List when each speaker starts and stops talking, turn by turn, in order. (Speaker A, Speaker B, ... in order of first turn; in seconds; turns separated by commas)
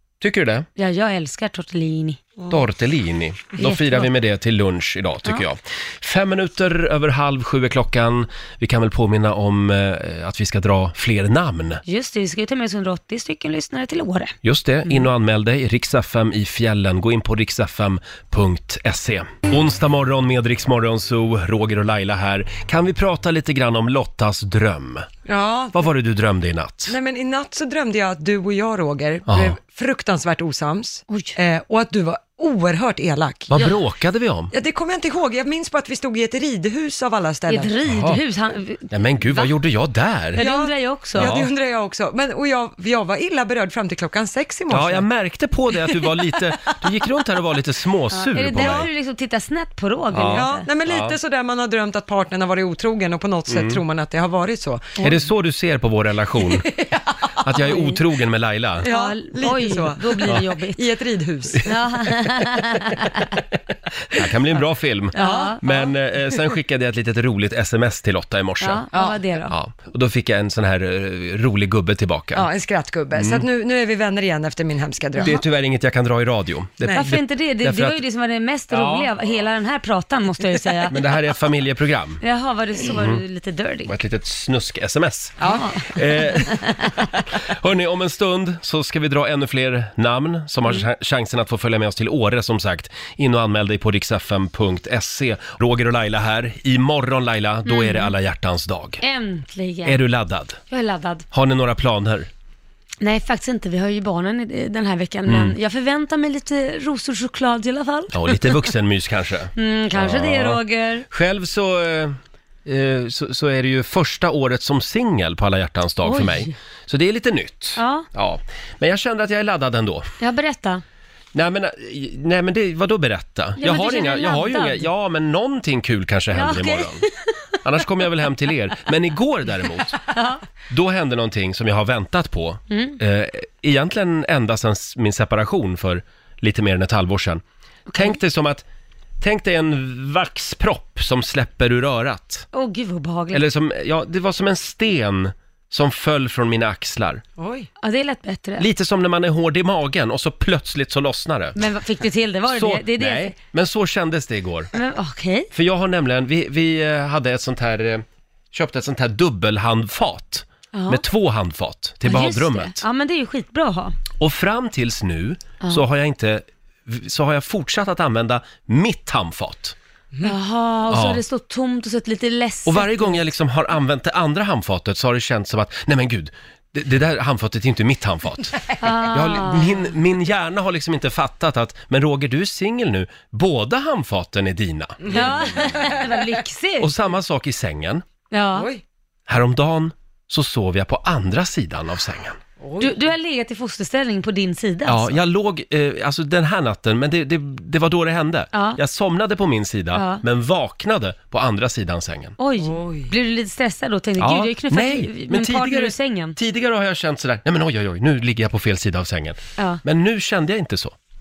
Speaker A: 0.2-0.7, Speaker B: 0.8-2.2, Speaker A: 2.5-11.8, Speaker B: 3.5-4.1, Speaker B: 11.8-14.3, Speaker A: 14.4-25.1, Speaker C: 25.2-25.8, Speaker A: 25.7-26.9, Speaker C: 26.9-33.7, Speaker A: 29.3-29.5, Speaker B: 31.1-31.4, Speaker A: 33.5-34.5, Speaker C: 34.5-37.7, Speaker B: 37.5-39.5, Speaker A: 37.9-38.2, Speaker A: 38.9-40.4, Speaker B: 40.3-41.4, Speaker C: 40.4-45.0, Speaker A: 41.1-41.5, Speaker A: 44.7-48.9, Speaker B: 48.1-50.7, Speaker C: 48.6-48.9, Speaker A: 50.1-51.2, Speaker C: 50.3-55.0, Speaker A: 53.5-53.8, Speaker A: 55.0-56.7, Speaker C: 56.6-57.2, Speaker A: 57.4-58.9, Speaker C: 58.8-61.7, Speaker B: 58.9-60.8, Speaker B: 61.6-63.3, Speaker A: 64.1-68.8, Speaker B: 65.1-65.9, Speaker C: 65.2-65.5, Speaker B: 68.6-69.5, Speaker C: 68.9-69.3, Speaker A: 69.4-72.5, Speaker C: 72.3-75.3, Speaker A: 73.1-73.4, Speaker A: 75.2-78.0, Speaker B: 76.8-81.0, Speaker A: 78.7-79.1, Speaker A: 80.9-82.2, Speaker B: 82.2-83.9, Speaker A: 82.9-83.2, Speaker A: 83.8-86.7, Speaker B: 85.4-87.0, Speaker A: 87.4-99.0, Speaker B: 97.7-98.1, Speaker B: 99.0-100.0, Speaker A: 99.8-100.6, Speaker B: 100.7-101.2, Speaker A: 101.3-102.3, Speaker B: 103.0-108.7, Speaker A: 105.3-105.5, Speaker A: 108.1-120.1, Speaker B: 109.5-111.0, Speaker B: 116.0-116.5, Speaker B: 117.8-118.1, Speaker B: 120.2-120.8, Speaker A: 121.3-127.0, Speaker B: 123.6-124.9, Speaker B: 126.3-127.4, Speaker A: 127.6-130.0, Speaker B: 130.1-130.4, Speaker A: 130.7-137.4, Speaker B: 132.7-133.0, Speaker B: 137.9-138.2, Speaker A: 137.9-138.6, Speaker A: 139.2-142.5, Speaker B: 142.5-143.4, Speaker A: 143.3-147.2, Speaker C: 147.4-147.7, Speaker B: 147.8-148.7, Speaker A: 148.6-151.6, Speaker B: 151.5-153.3, Speaker A: 152.5-154.7, Speaker B: 154.7-155.5, Speaker A: 155.5-162.8, Speaker B: 160.7-161.0, Speaker B: 162.0-164.0, Speaker A: 164.2-169.7, Speaker B: 170.2-173.2, Speaker A: 170.9-171.2, Speaker A: 172.6-185.6, Speaker B: 178.8-179.8, Speaker C: 185.0-186.1, Speaker B: 185.1-186.9, Speaker A: 186.8-188.0, Speaker B: 188.3-188.7, Speaker C: 188.5-188.8, Speaker A: 189.3-192.4, Speaker C: 192.6-192.9, Speaker B: 192.8-195.2, Speaker A: 194.8-202.3, Speaker B: 198.5-198.8, Speaker B: 199.9-200.2, Speaker B: 202.4-206.3, Speaker C: 202.6-203.1, Speaker A: 204.2-210.9